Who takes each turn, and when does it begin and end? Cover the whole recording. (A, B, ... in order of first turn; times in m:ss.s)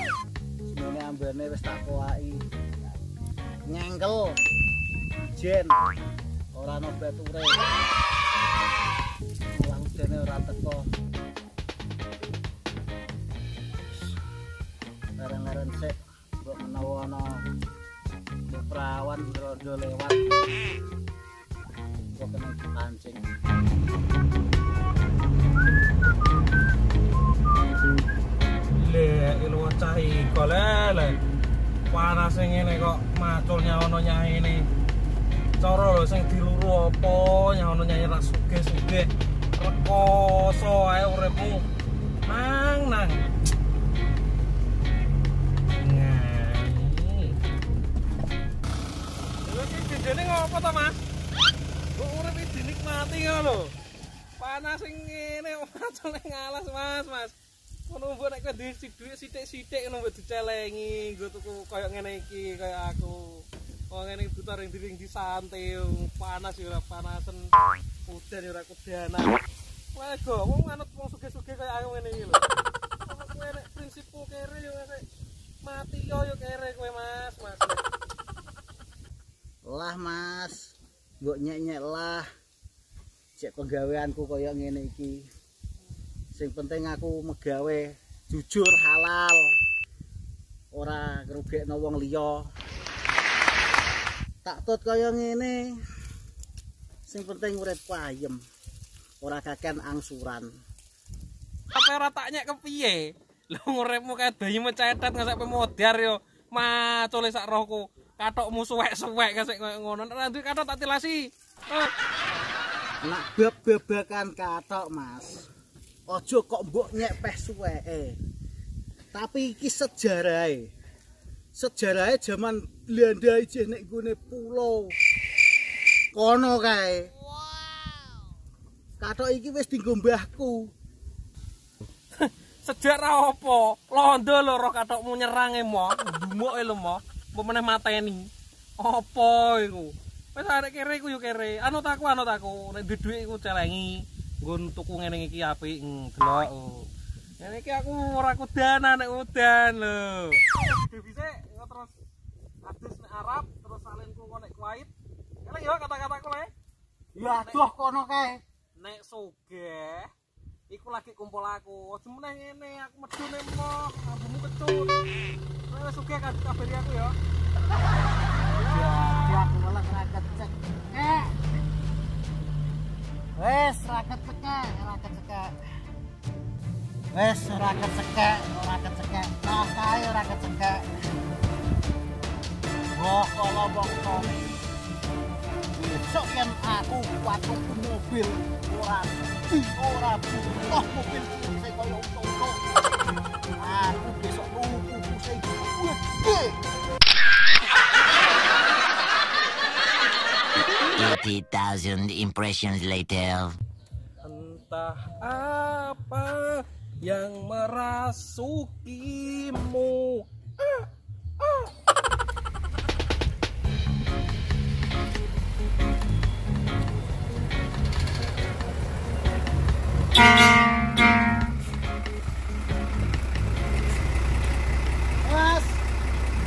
0:00.6-0:02.5 A
0:03.6-0:04.4 A
0:05.3-0:05.8 A
0:06.5-0:07.7 A
0:09.5-0:10.9 A
0:15.2-0:17.4 A
0:18.5-0:20.2 A
0:22.1-0:23.3 A
0:28.7-0:31.2 B
0:31.9-0:34.7 B
0:35.6-0:41.6 B
0:42.2-0:43.3 B
0:45.8-0:47.4 B
0:49.4-0:51.0 B
0:51.9-0:53.7 B
0:54.4-0:57.3 B
0:57.9-1:07.5 B
1:08.1-1:09.4 B
1:09.9-1:12.4 B
1:13.0-1:15.0 B
1:15.6-1:17.8 B
1:19.6-1:22.3 A
1:23.4-1:25.3 A
1:26.3-1:29.6 A
1:30.7-1:32.5 A
1:34.4-1:35.8 A
1:37.1-1:38.4 A
1:39.2-1:40.5 A
1:41.7-1:51.9 B
1:53.0-1:55.5 A
1:56.1-1:58.2 A
1:59.1-2:00.7 A
2:01.5-2:04.9 A
2:06.1-2:07.1 A
2:09.0-2:10.7 A
2:12.2-2:31.9 B
2:32.6-2:34.9 B
2:35.4-2:36.5 B
2:37.2-2:38.4 A
2:37.2-2:37.6 B
2:38.8-2:40.1 B
2:40.7-2:44.9 B
2:45.7-2:47.2 B
2:48.6-2:51.4 A
2:53.4-2:55.6 A
2:57.1-3:00.9 A
3:02.9-3:04.5 A
3:05.7-3:12.6 A
3:13.6-3:16.6 A
3:20.9-3:23.6 C
3:24.2-3:30.8 B
3:31.4-3:31.7 B
3:45.2-3:45.8 A